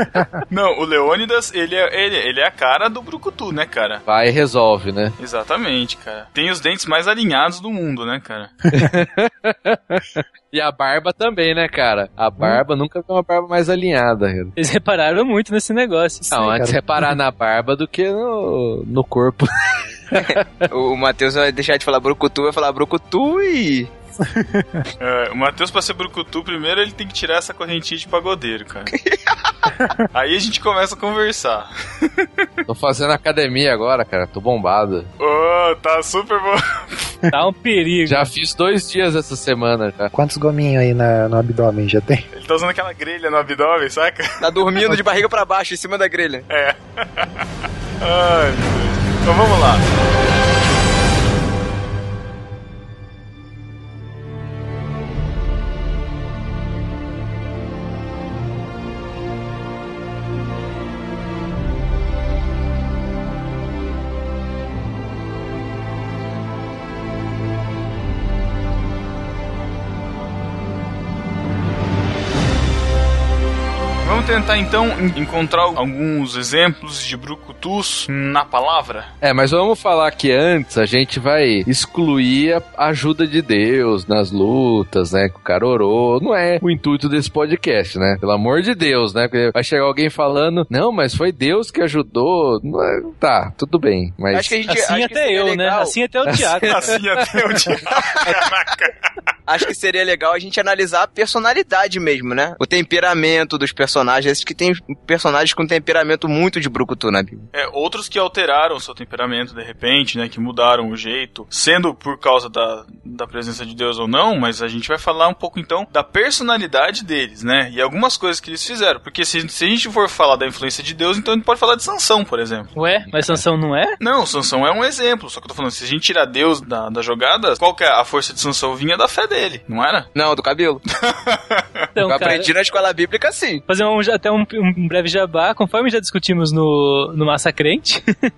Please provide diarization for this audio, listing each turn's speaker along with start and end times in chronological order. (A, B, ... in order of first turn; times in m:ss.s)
0:00.5-0:04.0 A
0:04.0-0:05.2 B
0:05.2-0:08.5 A
0:08.7-0:14.5 B
0:14.6-0:16.5 C
0:16.3-0:19.5 B
0:16.4-0:17.1 D
0:20.1-0:20.6 B
0:20.1-0:23.9 E
0:24.2-0:24.8 D
0:25.0-0:28.9 A
0:28.9-0:29.2 E
0:30.1-0:32.3 A
0:32.7-0:35.1 B
0:35.2-0:37.1 A
0:37.3-0:38.2 C
0:38.0-0:40.1 B
0:40.1-0:42.2 D
0:42.3-0:44.9 A
0:44.4-0:46.4 E
0:46.5-0:47.3 A
0:48.0-0:49.8 A
1:14.0-1:19.1 A
1:19.2-1:34.6 B
1:34.3-1:36.0 E
1:34.7-1:37.0 C
1:36.2-1:37.0 B
1:36.6-1:39.0 A
1:39.5-1:47.5 E
1:47.5-2:02.7 A
2:02.7-2:04.0 C
2:03.1-2:03.4 B
2:04.0-2:10.1 A
2:10.1-2:10.8 E
2:11.0-2:11.6 A
2:11.9-2:12.5 C
2:12.0-2:13.6 E
2:13.7-2:18.0 C